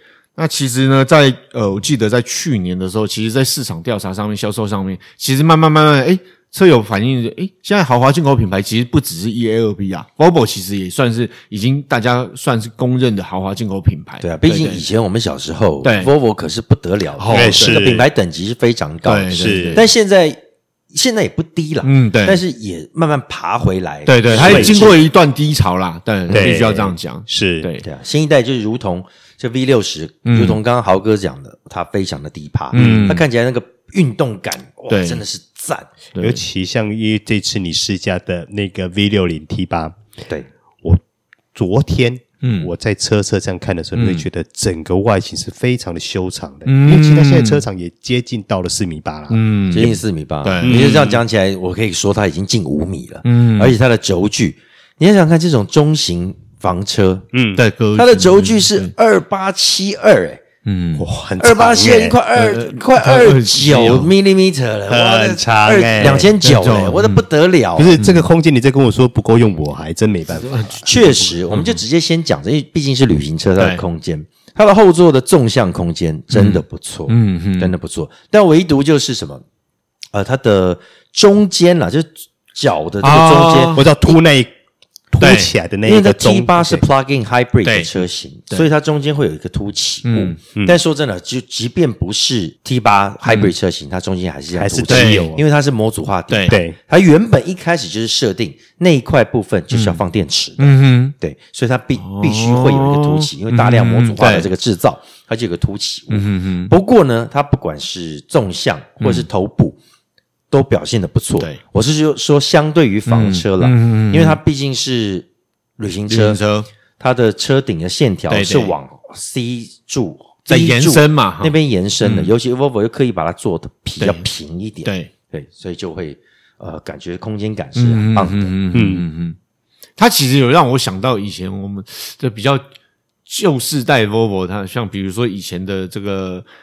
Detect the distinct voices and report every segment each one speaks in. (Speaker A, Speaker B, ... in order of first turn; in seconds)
Speaker A: 0.4-14.8, 15.8-16.1, 17.2-17.9, 19.0-19.8, 21.8-22.4, 24.1-27.8, 30.2-30.6, 32.7-33.2, 34.9-35.2, 36.1-36.4, 42.4-42.7, 43.9-44.2, 46.6-47.6, 49.3-51.1, 53.2-53.8, 57.5-58.9, 60.6-61.0, 62.3-64.1, 66.0-67.2, 68.0-68.3, 70.3-71.8, 73.6-73.8, 76.3-77.7, 83.0-83.8, 85.2-85.5, 87.6-87.9, 90.0-90.4, 94.9-95.3, 96.3-96.6, 99.7-100.0, 100.6-101.1, 102.0-104.5, 106.1-106.7, 109.0-109.3, 113.1-114.4, 116.1-116.7, 118.3-118.7, 120.5-122.3, 124.0-124.2, 124.8-125.1, 127.7-129.3, 130.0-132.6, 133.3-136.4
Speaker B: 14.2-20.4, 20.9-25.0, 26.3-26.6, 27.8-35.9, 49.7-57.2, 57.9-60.4, 61.4-68.0, 70.8-79.4, 80.1-84.1, 85.8-109.8, 110.5-116.4, 117.0-128.5
Speaker C: 17.3-18.0, 19.3-19.8, 24.3-24.9, 26.3-27.7, 32.7-33.2, 36.2-39.9, 41.5-49.4, 50.6-51.2, 57.3-57.6, 61.0-62.2, 64.9-66.3, 67.8-71.0, 83.7-84.5, 85.1-86.8, 94.5-95.4, 96.5-96.8, 128.7-129.1